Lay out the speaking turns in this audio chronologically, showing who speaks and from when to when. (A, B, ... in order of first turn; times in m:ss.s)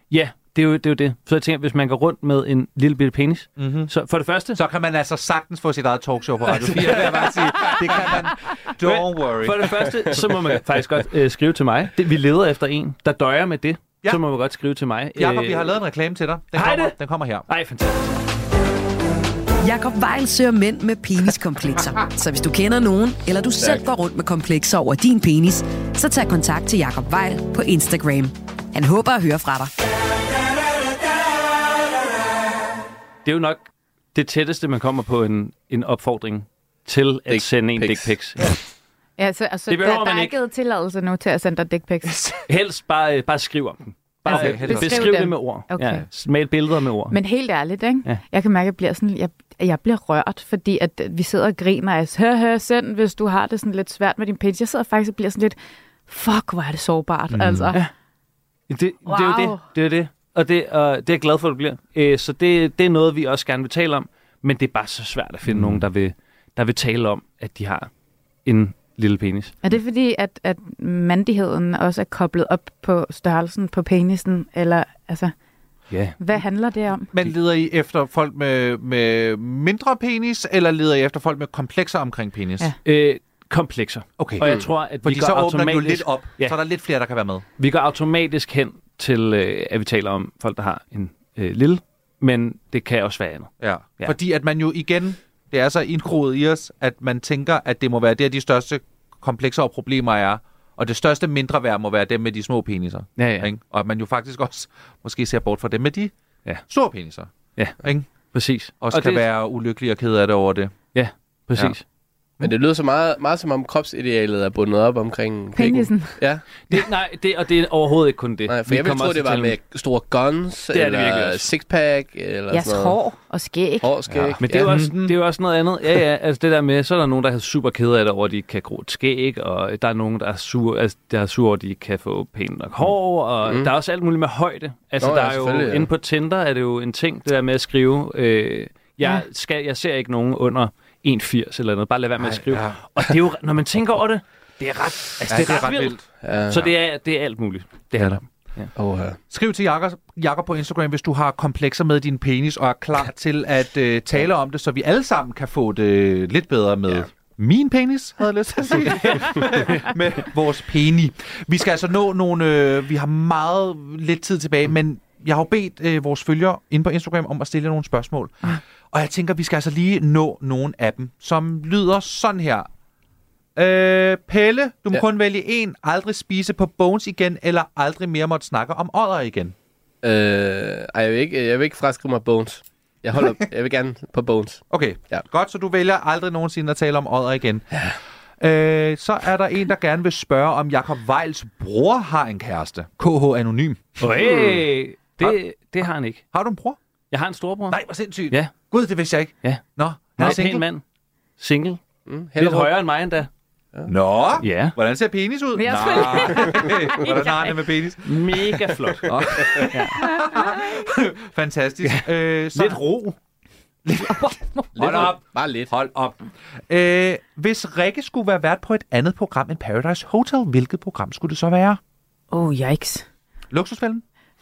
0:00.1-0:04.6 A
0:03.6-0:03.9 B
0:04.5-0:10.3 B
0:06.6-0:08.1 A
0:08.8-0:15.8 A
0:15.2-0:17.5 B
0:16.5-0:17.0 A
0:17.5-0:18.1 A
0:19.6-0:29.7 C
0:23.6-0:23.8 D
0:33.2-0:38.6 A
0:37.3-0:38.5 D
0:39.2-0:42.2 E
0:39.7-0:40.4 A
0:42.0-0:42.5 B
0:42.5-0:47.2 A
0:44.2-0:45.2 B
0:44.3-0:46.0 E
0:47.1-0:55.6 E
0:56.1-0:57.8 E
0:57.3-0:57.8 B
0:58.7-1:07.9 A
0:59.1-0:59.6 E
1:05.5-1:05.9 B
1:08.4-1:09.6 A
1:09.6-1:15.3 E
1:15.9-1:16.2 A
1:16.2-1:17.1 E
1:17.1-1:22.7 B
1:22.8-1:26.6 A
1:24.2-1:27.4 B
1:24.4-1:24.7 D
1:27.6-1:34.2 A
1:33.6-1:46.1 B
1:43.2-1:43.5 A
1:46.7-1:47.3 B
1:47.6-1:49.2 A
1:47.8-1:48.1 B
1:48.8-1:50.7 B
1:50.9-1:51.8 A
1:52.4-1:56.6 D
1:55.6-1:56.2 E
1:56.7-1:59.6 A
1:58.5-2:03.0 D
2:00.7-2:01.5 A
2:02.5-2:03.9 E
2:03.8-2:04.8 D
2:04.1-2:05.2 B
2:04.4-2:28.7 A
2:13.4-2:13.7 D
2:15.0-2:15.9 D
2:22.2-2:22.8 B
2:25.3-2:26.7 B
2:26.2-2:26.7 D
2:28.0-2:28.2 B
2:28.8-2:29.2 D
2:29.3-2:52.7 B
2:53.6-2:59.6 B
3:00.0-3:05.2 D
3:04.7-3:07.9 B
3:08.4-3:14.4 B
3:14.0-3:16.2 A
3:16.3-3:16.8 B
3:17.1-3:17.8 A
3:17.7-3:20.6 B
3:20.2-3:20.8 A
3:21.4-3:21.8 A
3:22.1-3:22.8 D
3:22.4-3:23.3 A
3:23.9-3:28.4 B
3:24.4-3:24.8 A
3:25.6-3:27.6 E
3:28.0-3:30.0 A
3:29.0-3:32.8 B
3:30.1-3:30.6 E
3:31.8-3:33.2 A
3:33.9-3:41.8 B
3:34.0-3:34.8 E
3:34.8-3:35.7 D
3:42.3-3:43.0 E
3:43.5-3:44.0 B